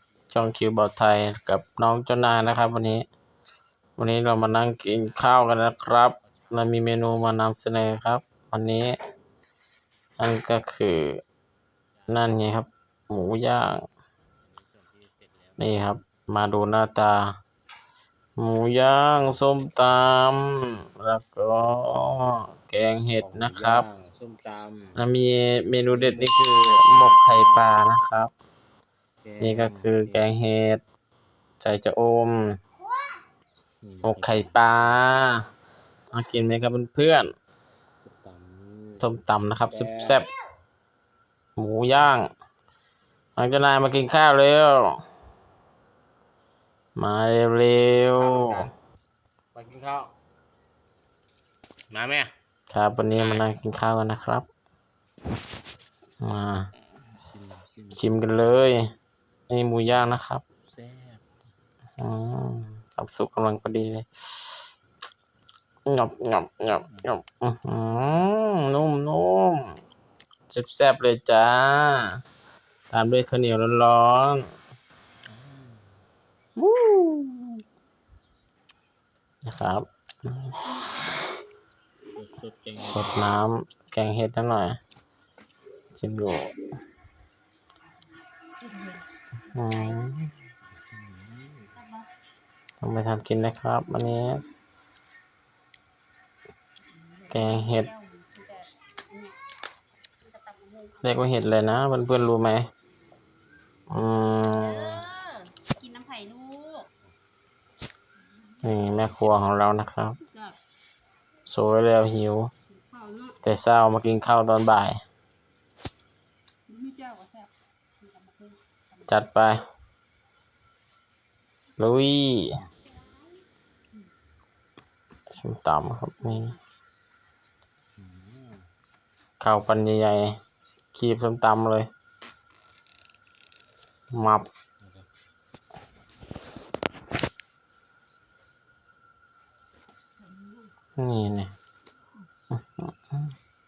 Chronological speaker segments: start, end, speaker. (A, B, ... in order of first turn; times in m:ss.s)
0:00.3-0:03.1 A
0:04.0-0:09.0 A
0:04.9-0:05.5 B
0:06.2-0:06.8 B
0:10.2-0:11.2 A
0:12.0-0:12.2 B
0:12.1-0:13.8 A
0:14.4-0:16.0 B
0:15.6-0:17.4 A
0:18.4-0:23.9 A
0:23.2-0:25.0 B
0:25.0-0:28.3 A
0:25.9-0:27.7 B
0:29.2-0:30.4 B
0:29.4-0:30.8 A
0:31.6-0:32.6 A
0:33.8-0:35.0 B
0:34.0-0:35.5 A
0:36.1-0:37.3 A
0:38.0-0:40.2 B
0:39.0-0:40.3 A
0:41.6-0:42.3 A
0:43.4-0:45.0 A
0:47.0-0:48.7 A
0:48.1-0:48.7 B
0:49.5-0:50.1 B
0:51.9-0:52.3 B
0:52.7-0:54.5 A
0:53.2-0:53.4 B
0:56.2-0:56.7 A
0:57.1-0:58.2 B
0:58.0-0:58.9 A
0:59.5-1:00.4 A
0:59.9-1:01.3 B
1:02.0-1:04.5 A
1:05.9-1:09.8 A
1:10.5-1:12.2 A
1:12.9-1:14.5 A
1:15.3-1:16.0 B
1:16.6-1:17.6 A
1:19.4-1:20.7 A
1:22.2-1:23.2 B
1:22.8-1:24.8 A
1:26.0-1:26.5 A
1:28.6-1:30.1 C
1:29.5-1:30.3 A
1:30.7-1:31.8 B
1:31.7-1:32.1 C
1:32.8-1:34.4 A
1:36.9-1:39.4 C
1:37.3-1:37.9 A
1:40.2-1:41.3 C
1:41.0-1:42.7 A
1:43.9-1:45.0 A
1:44.6-1:46.9 C
1:48.4-1:48.8 C
1:48.6-1:50.2 A
1:50.2-1:50.6 C
1:51.5-1:52.5 A
1:52.7-1:53.4 C
1:53.4-1:55.0 A
1:56.7-1:59.2 C
1:59.1-1:59.6 A
2:01.8-2:02.6 A
2:05.3-2:06.6 A
2:06.2-2:06.6 C
2:08.0-2:08.7 B
2:09.4-2:10.4 A
2:10.9-2:11.9 A
2:14.1-2:14.5 A
2:14.8-2:15.1 B
2:20.2-2:20.7 C
2:21.0-2:21.5 A
2:22.6-2:23.2 A